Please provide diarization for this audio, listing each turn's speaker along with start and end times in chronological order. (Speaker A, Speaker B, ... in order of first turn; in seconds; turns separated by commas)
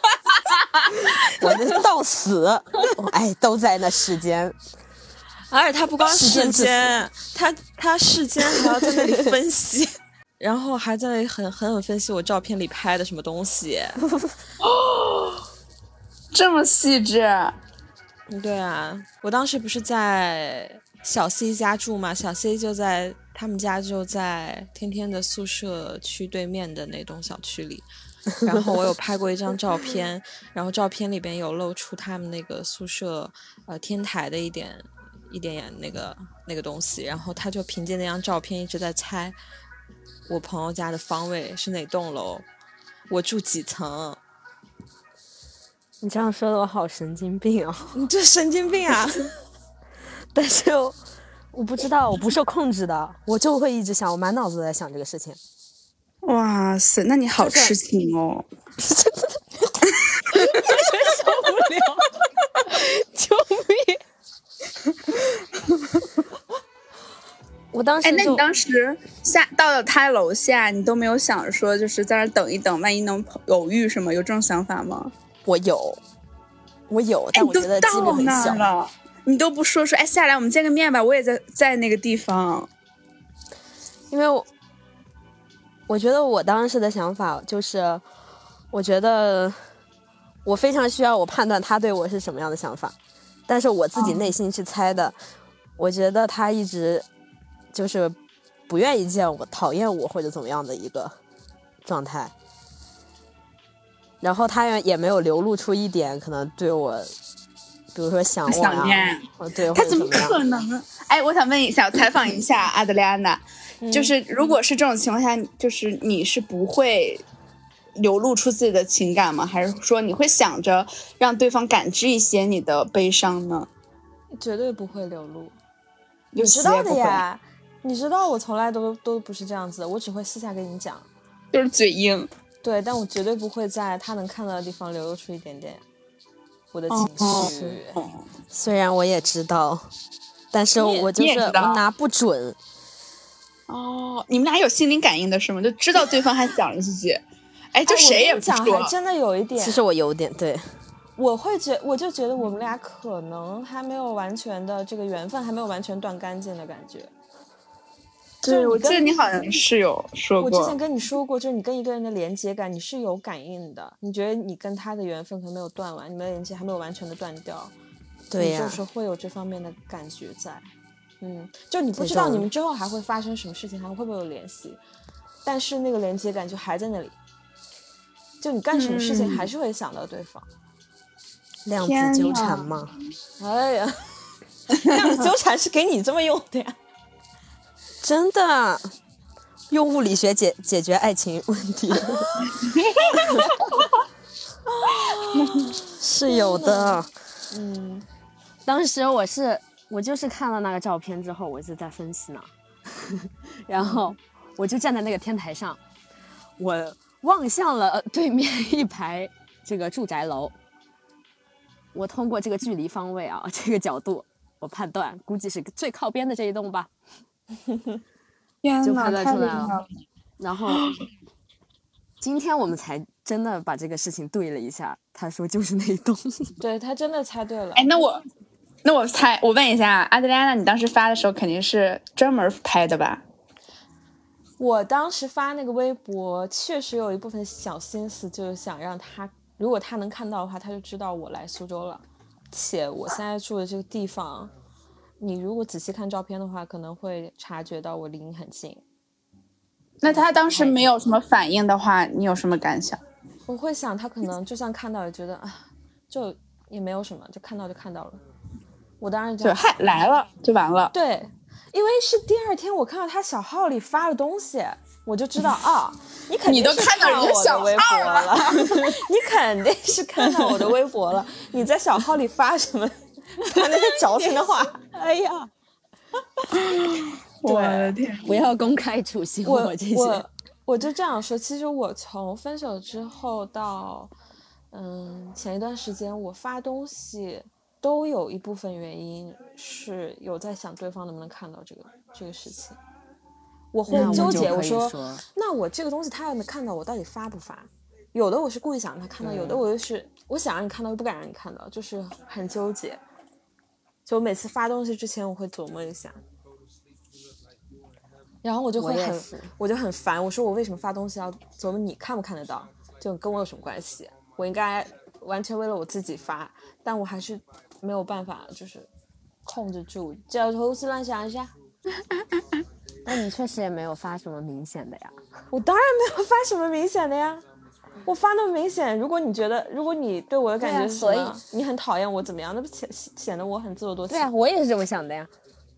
Speaker A: 0.8-1.5, Speaker B: 1.0-4.6, Speaker C: 5.5-14.0, Speaker B: 6.0-7.0, Speaker B: 8.6-9.3, Speaker B: 14.1-14.4, Speaker A: 14.6-15.4, Speaker A: 16.3-17.6, Speaker C: 18.3-27.9, Speaker C: 28.4-39.4, Speaker C: 40.3-42.5, Speaker C: 43.1-44.2, Speaker B: 46.0-47.9, Speaker C: 47.9-49.3, Speaker B: 50.3-51.0, Speaker B: 51.5-55.4, Speaker A: 56.2-58.5, Speaker B: 57.4-57.8, Speaker B: 58.8-64.0, Speaker A: 60.0-60.7, Speaker B: 67.7-68.4, Speaker A: 68.0-75.1, Speaker B: 75.5-76.0, Speaker B: 76.9-78.7, Speaker A: 77.3-82.7, Speaker B: 84.1-84.5, Speaker B: 85.9-88.0, Speaker B: 88.7-89.6, Speaker B: 90.5-93.0, Speaker B: 93.5-95.2, Speaker B: 95.8-97.1, Speaker B: 97.7-98.2, Speaker B: 98.7-101.2, Speaker B: 101.8-102.3, Speaker B: 104.2-107.1, Speaker B: 107.9-110.4, Speaker A: 108.5-117.2, Speaker C: 113.8-114.1, Speaker A: 118.0-123.7, Speaker C: 124.4-125.5, Speaker A: 126.3-127.2, Speaker C: 126.4-131.1, Speaker A: 131.5-132.3, Speaker C: 132.6-135.8, Speaker C: 136.7-138.0, Speaker A: 136.9-138.2, Speaker B: 137.2-137.8, Speaker B: 138.5-139.9, Speaker B: 140.5-142.6, Speaker A: 140.8-141.8, Speaker A: 143.7-147.2, Speaker A: 147.7-148.9, Speaker C: 147.9-149.8, Speaker B: 149.6-150.7, Speaker C: 151.2-157.1, Speaker A: 158.4-160.8, Speaker C: 158.4-159.1, Speaker C: 160.4-167.7, Speaker B: 168.3-168.8, Speaker C: 168.4-170.7, Speaker C: 171.2-174.8, Speaker B: 172.0-172.5, Speaker C: 175.4-177.2, Speaker C: 178.4-180.5, Speaker A: 178.7-179.5, Speaker B: 181.7-182.9, Speaker A: 181.8-182.7, Speaker C: 183.4-184.0, Speaker C: 184.8-186.8, Speaker B: 188.0-188.9, Speaker B: 189.7-192.4, Speaker A: 192.6-193.4, Speaker B: 193.1-193.5, Speaker C: 193.1-193.6, Speaker C: 194.7-198.1, Speaker B: 195.8-197.1, Speaker B: 198.7-205.8, Speaker C: 203.8-204.1, Speaker B: 206.6-210.6, Speaker B: 211.9-216.9, Speaker A: 218.6-219.9, Speaker B: 218.8-219.8, Speaker B: 220.4-220.9, Speaker A: 220.7-221.0, Speaker B: 222.2-226.6, Speaker C: 226.6-227.9, Speaker A: 227.8-228.2, Speaker A: 228.8-233.2, Speaker C: 234.6-244.5, Speaker C: 245.2-248.8, Speaker A: 250.0-253.0, Speaker C: 250.1-250.9, Speaker C: 253.5-258.2, Speaker C: 259.0-259.7, Speaker A: 259.4-260.9, Speaker C: 260.9-274.9, Speaker A: 266.5-268.7, Speaker B: 274.9-275.5, Speaker A: 276.5-278.4, Speaker C: 277.4-278.0, Speaker B: 278.2-280.2, Speaker C: 279.4-284.1, Speaker C: 284.7-292.8, Speaker C: 293.7-303.0, Speaker B: 293.9-295.2, Speaker A: 293.9-294.3, Speaker B: 299.2-299.6, Speaker C: 304.1-306.2, Speaker C: 308.4-318.9, Speaker B: 308.8-309.5, Speaker C: 319.5-321.5, Speaker B: 323.1-325.2, Speaker C: 325.5-327.4, Speaker C: 328.1-334.3, Speaker B: 330.6-331.4, Speaker B: 334.1-335.3